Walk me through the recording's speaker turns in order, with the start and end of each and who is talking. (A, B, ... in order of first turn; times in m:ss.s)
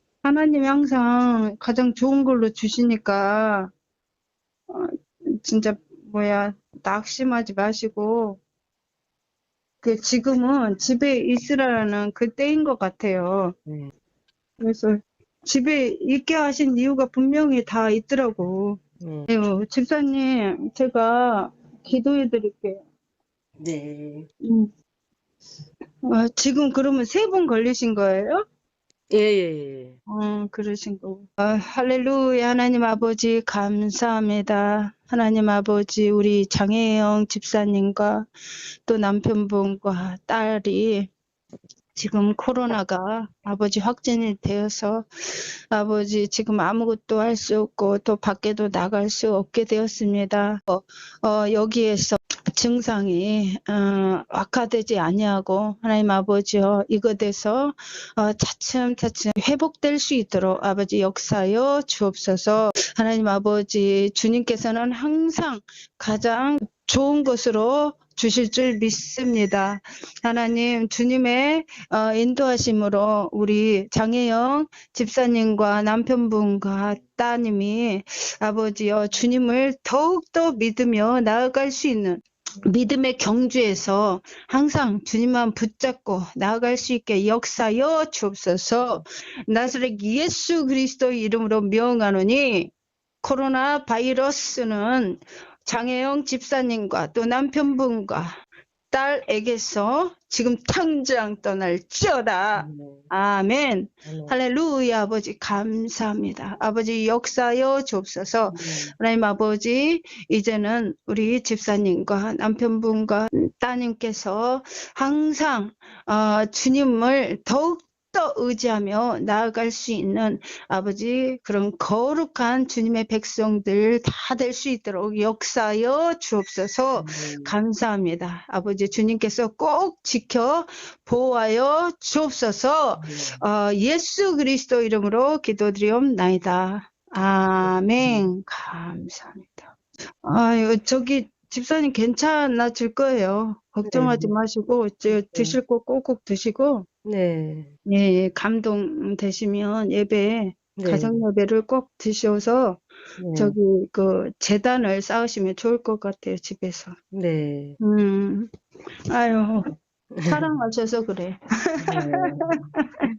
0:00.2-0:03.7 A
0:04.7-0:08.4 A
0:09.8-0:13.5 A
0:14.6-0:22.8 A
0:19.0-0:19.3 B
0:23.6-0:24.3 B
0:24.4-0:24.7 A
0:26.0-0:28.4 A
0:29.1-0:30.0 B
0:30.1-0:38.3 A
0:38.9-0:41.1 A
0:42.0-1:32.7 A
1:33.2-1:38.3 A
1:38.9-2:19.7 A
1:42.6-1:43.0 B
1:44.0-1:44.3 B
1:48.5-1:48.9 B
2:07.0-2:07.5 B
2:13.0-2:13.4 B
2:18.0-2:18.3 B
2:20.2-2:26.9 A
2:23.8-2:24.3 B
2:27.0-2:27.7 B
2:27.8-2:36.9 A
2:30.8-2:31.2 B
2:33.2-2:33.6 B
2:37.1-2:37.8 B
2:37.8-2:38.5 A
2:39.1-2:39.6 A
2:40.3-2:42.5 A
2:41.8-2:42.7 B